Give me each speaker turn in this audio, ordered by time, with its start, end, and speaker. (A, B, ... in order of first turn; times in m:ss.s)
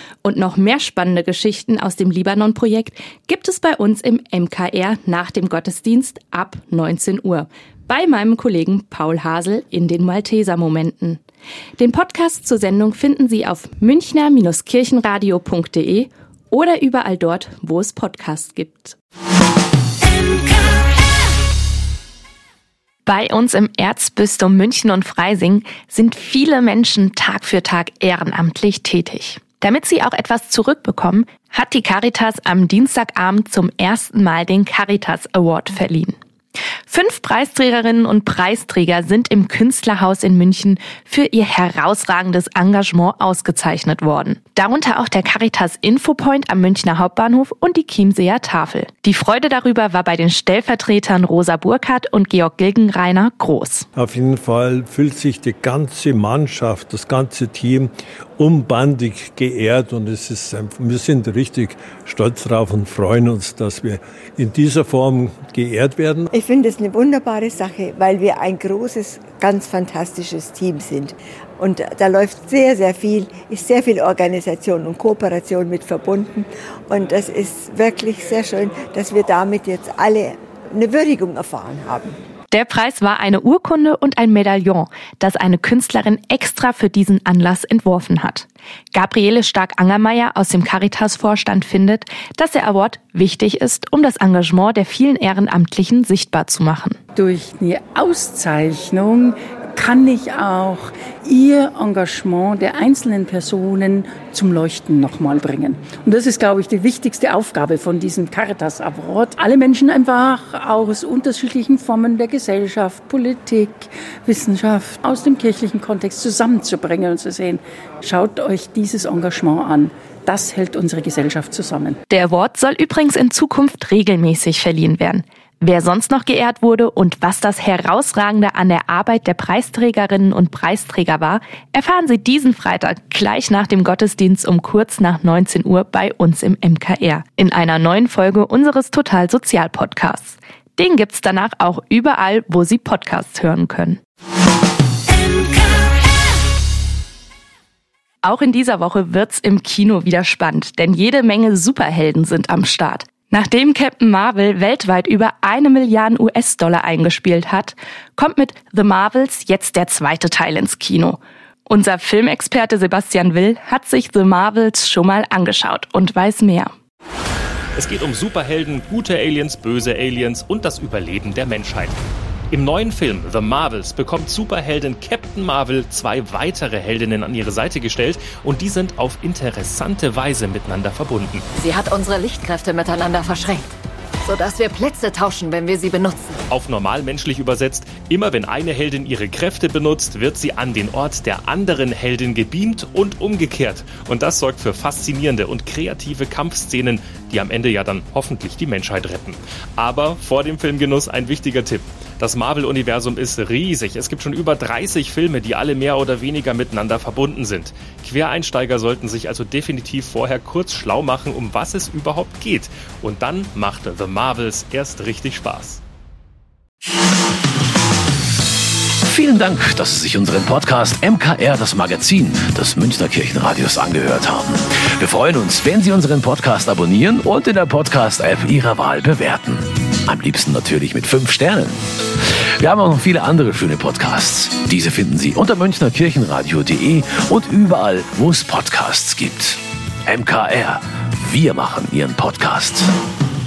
0:00.2-0:11.2 A
0:11.8-0:19.0 A
0:23.1-0:36.2 A
0:36.9-0:53.9 A
0:54.0-1:06.3 B
1:06.3-1:22.2 C
1:22.5-1:37.0 A
1:37.2-2:02.0 D
2:02.1-2:24.0 A
2:28.2-2:46.7 A
2:47.8-2:52.0 E
2:52.5-3:01.4 E
3:01.6-3:03.7 F
3:04.2-3:06.4 F
3:06.5-3:35.8 E
3:39.1-3:51.8 G
3:52.6-4:02.9 G